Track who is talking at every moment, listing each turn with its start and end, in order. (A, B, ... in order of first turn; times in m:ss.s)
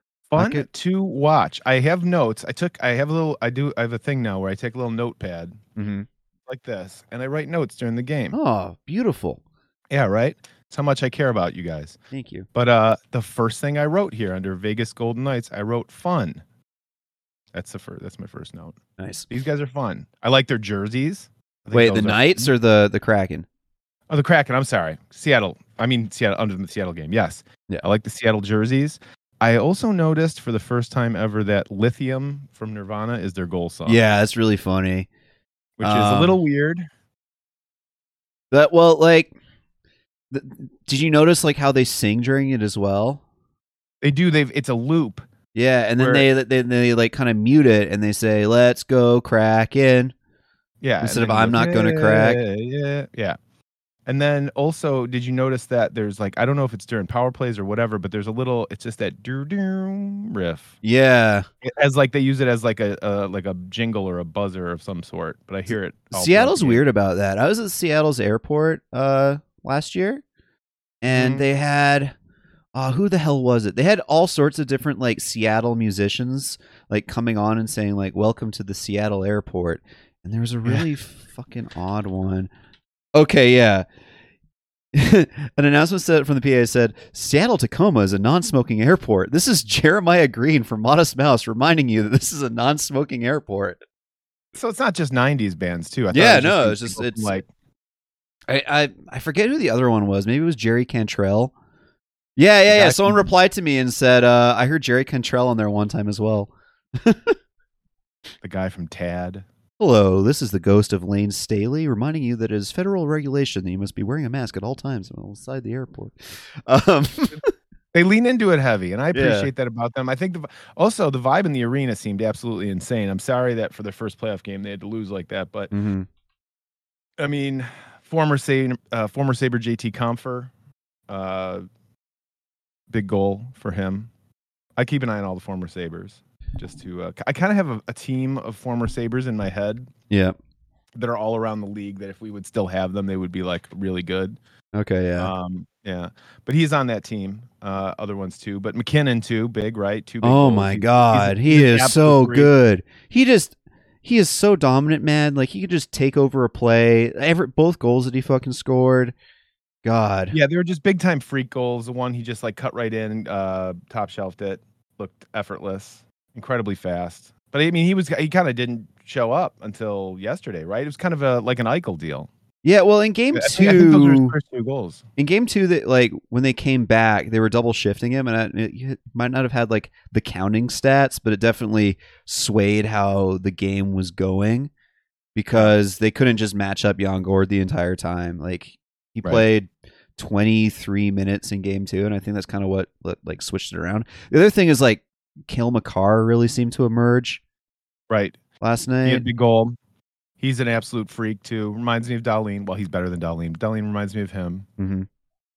0:00.3-0:05.6 A
0:00.4-0:00.6 B
0:05.8-0:06.1 B
0:06.5-0:08.4 A
0:08.3-0:09.4 B
0:09.9-0:12.0 A
0:12.1-0:12.4 B
0:12.5-0:16.4 A
0:17.5-0:18.8 A
0:19.0-0:19.3 B
0:19.3-0:22.5 A
0:21.7-0:23.4 B
0:24.1-0:34.0 A
0:33.8-0:35.1 B
0:35.8-0:36.8 A
0:35.8-0:36.4 B
0:38.5-0:39.3 B
0:40.3-0:43.2 B
0:44.0-0:45.2 A
0:45.5-0:50.1 B
0:46.0-0:46.3 A
0:50.8-0:53.4 A
0:51.0-0:52.4 B
0:54.1-1:00.8 A
1:00.8-1:01.4 B
1:01.6-1:06.8 A
1:06.1-1:10.2 B
1:11.0-1:12.1 B
1:11.1-1:11.4 A
1:12.7-1:22.5 B
1:23.1-1:23.8 B
1:24.9-1:33.8 B
1:34.5-1:37.5 A
1:36.1-1:37.4 B
1:38.5-1:41.5 B
1:42.4-1:47.4 B
1:42.7-1:43.3 A
1:48.4-1:49.4 A
1:49.8-1:57.5 B
1:57.9-2:05.7 A
1:59.1-1:59.5 B
2:05.7-2:06.1 B
2:07.2-2:10.5 A
2:11.1-2:11.6 A
2:12.9-2:14.1 A
2:14.8-2:19.9 A
2:20.1-2:20.4 B
2:20.9-2:24.4 A
2:24.8-2:25.3 B
2:25.2-2:32.5 A
2:30.2-2:39.1 B
2:39.8-2:40.4 B
2:40.3-2:52.3 A
2:52.6-2:54.3 B
2:53.3-2:55.0 A
2:55.2-3:04.7 B
3:05.3-3:17.4 B
3:18.1-3:18.4 A
3:18.6-3:19.2 B
3:19.0-3:19.7 A
3:20.4-3:24.6 A
3:24.8-3:25.1 B